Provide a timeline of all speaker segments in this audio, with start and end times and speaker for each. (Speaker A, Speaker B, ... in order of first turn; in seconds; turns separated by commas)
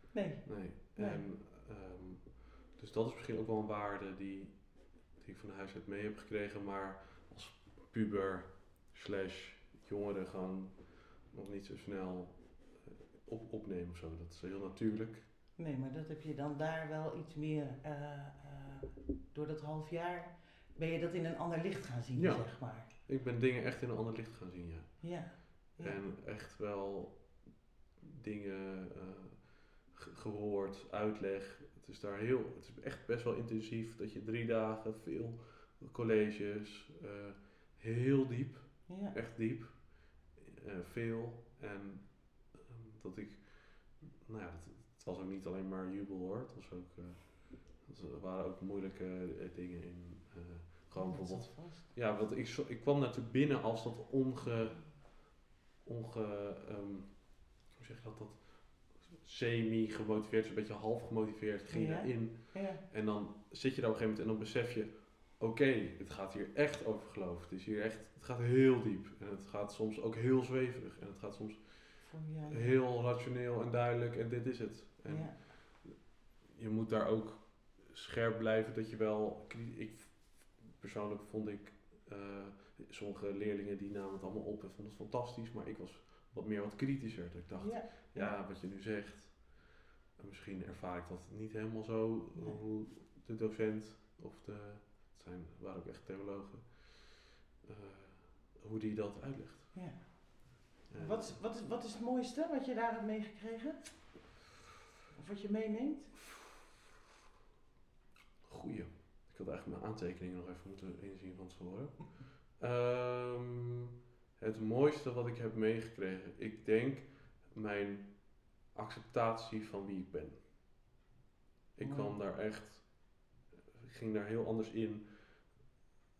Speaker A: 0.1-1.2, Speaker B: 0.4-15.3, Speaker A: 15.6-22.9, Speaker B: 22.1-99.8, Speaker A: 25.0-26.0, Speaker A: 38.9-39.1, Speaker A: 50.9-51.9, Speaker A: 61.7-62.8, Speaker A: 72.0-72.7, Speaker A: 75.0-75.4, Speaker A: 87.6-88.4, Speaker A: 92.3-92.6, Speaker A: 99.7-104.4, Speaker B: 100.9-101.4, Speaker A: 105.1-106.2, Speaker B: 108.4-113.8, Speaker B: 114.4-120.4, Speaker B: 121.7-125.6, Speaker A: 121.8-122.2